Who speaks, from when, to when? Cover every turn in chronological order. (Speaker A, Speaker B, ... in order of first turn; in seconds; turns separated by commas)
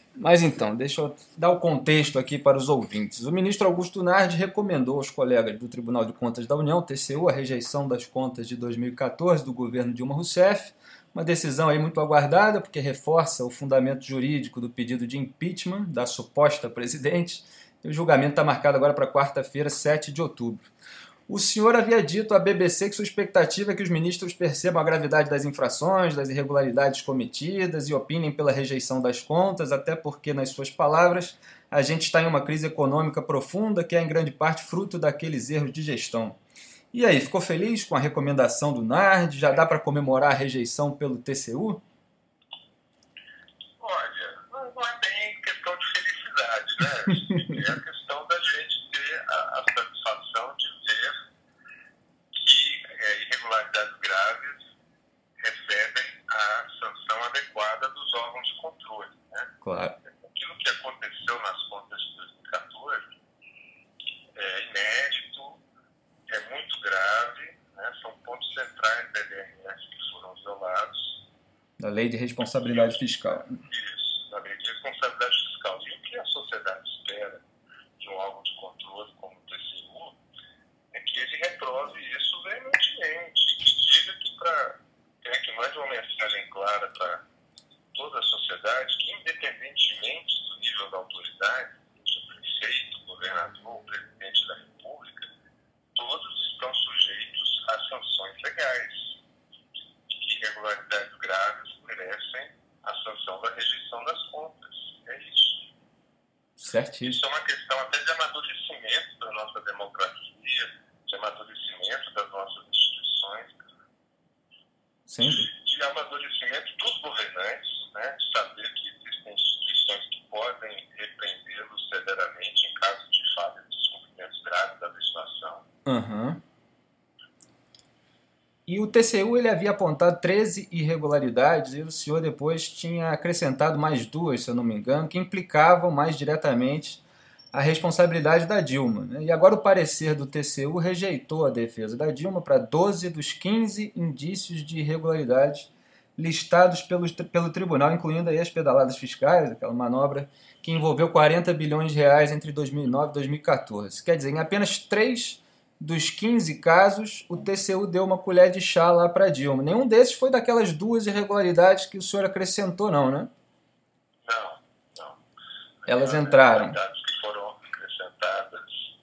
Speaker A: 0.2-20.7, Speaker A: 21.3-36.4, Speaker A: 36.9-41.8, Speaker B: 43.8-51.2, Speaker B: 52.4-54.6, Speaker B: 55.4-63.1, Speaker A: 59.6-60.0, Speaker B: 64.3-65.6, Speaker B: 66.3-71.2, Speaker A: 71.8-73.6, Speaker B: 72.7-77.4, Speaker B: 78.0-80.2, Speaker B: 80.9-87.2, Speaker B: 87.9-95.3, Speaker B: 96.0-99.2, Speaker B: 100.1-105.7, Speaker A: 106.6-107.2, Speaker B: 107.0-113.5, Speaker A: 115.1-115.5, Speaker B: 115.3-125.6, Speaker A: 125.9-126.4, Speaker A: 128.7-137.0, Speaker A: 137.5-163.3, Speaker B: 164.2-165.2, Speaker B: 165.8-168.9, Speaker A: 165.9-166.8